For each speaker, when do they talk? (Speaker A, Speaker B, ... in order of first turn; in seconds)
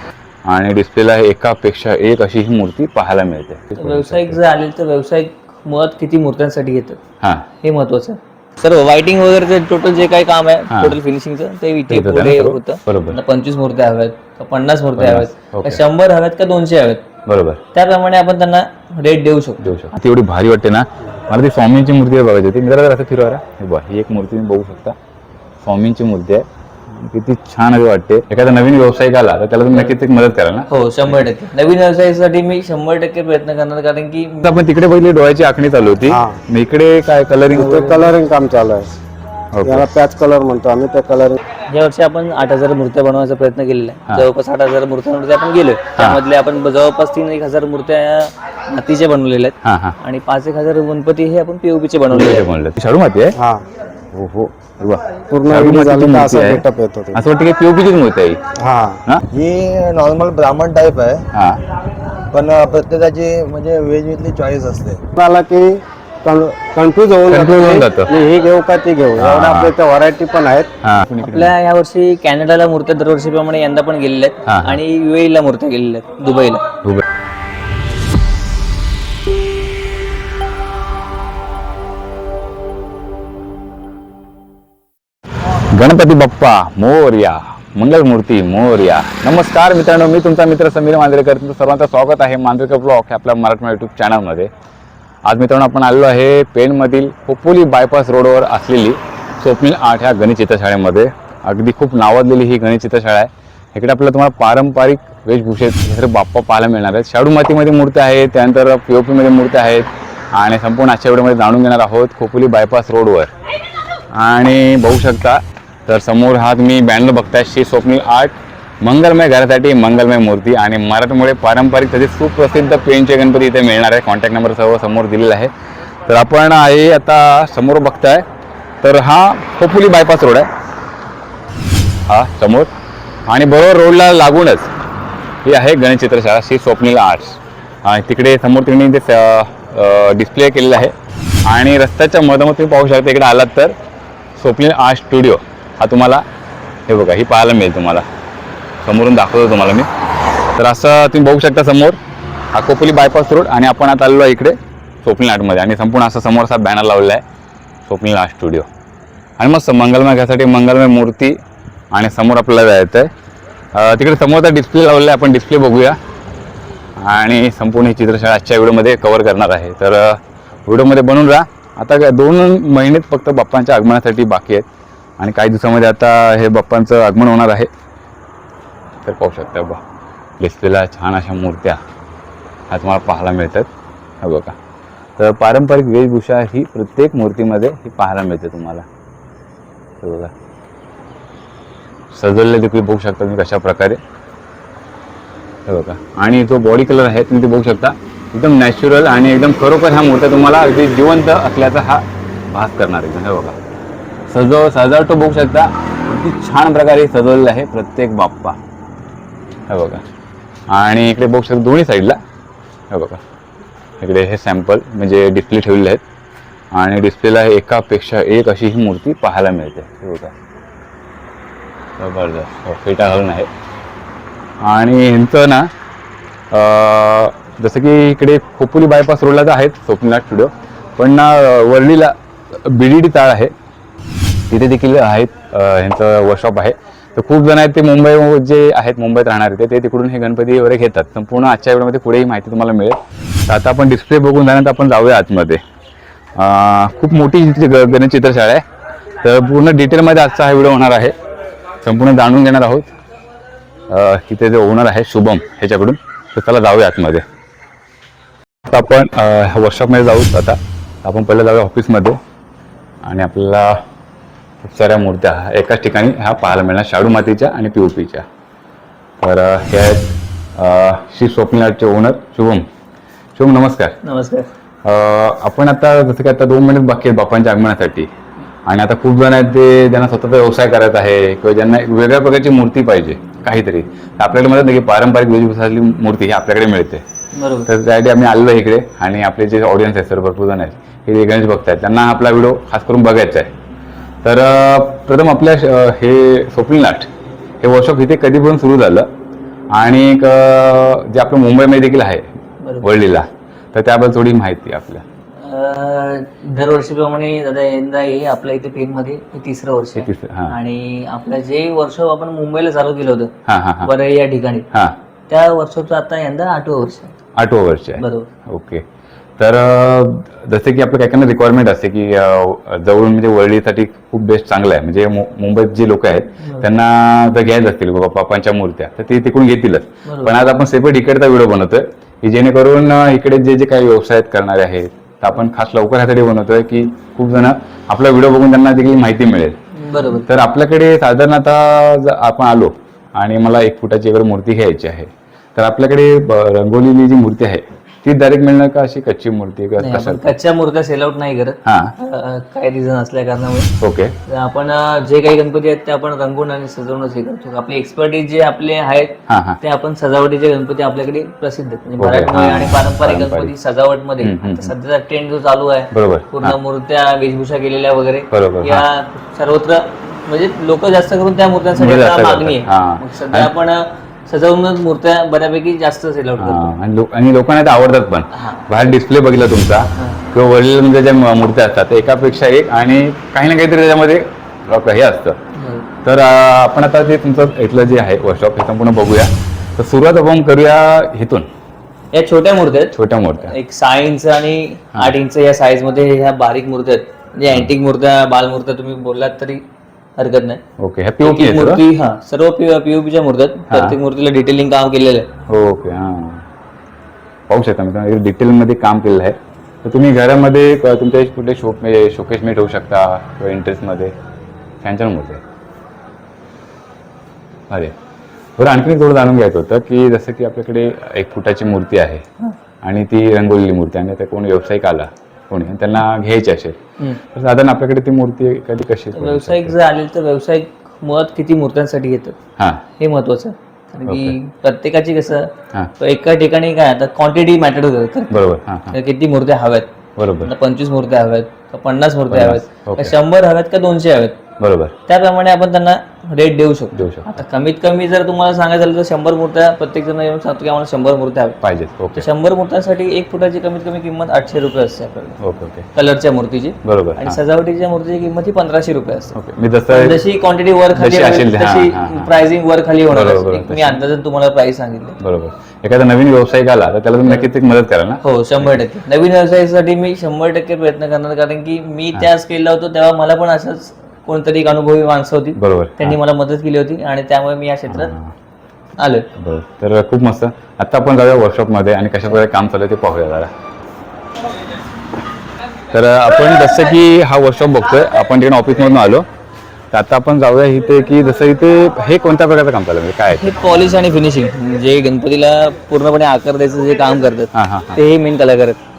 Speaker A: 0.5-4.4, 7.2-7.5, 10.7-11.0, 11.9-13.2, 15.0-15.8, 17.2-17.6, 19.6-24.9, 25.6-31.3, 34.4-38.0, 39.5-39.9, 49.6-50.0, 52.1-53.4, 54.1-56.6, 57.1-58.4, 61.3-61.6, 67.3-68.1, 69.2-69.7, 70.8-71.5, 74.5-74.8, 85.7-94.5, 95.2-113.3, 114.1-125.5, 126.1-128.2, 128.8-130.5, 132.1-132.7, 133.3-134.7, 135.4-140.9, 141.4-143.7, 144.4-146.2, 146.9-148.0, 148.8-149.9, 150.6-152.0, 152.5-157.2, 157.8-158.7, 159.4-161.4, 161.9-163.1, 163.7-166.0, 167.0-174.7, 175.2-177.7, 179.0-179.8, 180.4-181.8, 182.7-183.7, 184.2-184.6, 185.2-188.8, 190.0-190.3, 192.1-194.0, 195.7-203.6, 204.3-208.6, 209.7-210.0, 210.7-212.2, 212.9-213.2, 214.0-216.0, 216.7-220.3, 222.0-223.5, 224.6-225.7, 226.5-233.5, 234.5-245.6, 246.3-248.6, 249.2-251.1, 251.8-252.9, 253.9-257.2, 258.6-262.2, 263.0-263.8, 264.6-268.2, 269.2-272.6, 273.4-274.0, 274.8-278.1, 278.6-287.0, 287.6-293.5, 294.2-297.1, 297.6-299.1, 299.7-302.3, 302.8-305.0, 310.0-310.6, 313.4-313.9, 317.4-318.8, 319.4-339.6, 340.2-350.3, 351.6-351.9, 353.8-354.1, 359.3-359.6, 362.0-363.5, 364.2-364.7, 365.9-366.6, 368.3-368.8, 371.8-373.5, 376.4-385.4, 386.0-391.5, 392.9-393.5, 400.8-401.8, 403.7-404.0, 405.5-406.4, 407.5-414.1, 414.8-415.4, 417.7-417.9, 418.6-422.2, 422.8-426.8, 427.3-429.7, 432.6-432.8, 434.1-434.3, 438.3-438.9, 440.2-440.5, 442.3-443.1, 444.6-444.9, 446.9-447.4, 451.6-452.2, 455.4-455.9, 456.8-457.4, 459.3-460.2, 460.9-462.3, 463.1-464.0, 465.2-468.8, 475.6-476.2, 477.9-478.3, 479.4-483.5, 485.9-489.2, 489.9-493.6, 497.5-498.0
Speaker B: 3.8-7.0, 7.6-17.1, 17.7-19.7, 30.7-34.6, 41.7-52.5, 71.2-76.7, 274.0-274.5, 287.3-287.7, 305.4-313.3, 313.8-314.7, 315.3-317.2, 318.0-318.3, 330.1-330.3, 339.8-340.3, 349.8-353.7, 354.3-376.7, 378.3-378.9, 385.6-385.9, 392.1-399.6, 400.2-400.6, 401.2-405.3, 429.1-432.4, 433.0-439.9, 440.4-444.4, 445.1-451.6, 452.1-455.4, 455.9-459.3, 459.9-465.2, 468.2-478.1, 479.0-479.3, 493.3-498.8
Speaker C: 36.1-36.4, 37.5-38.9, 39.6-41.4, 53.3-53.6, 55.3-57.2, 58.5-59.0, 65.2-70.7
Speaker D: 59.3-61.2, 62.3-65.0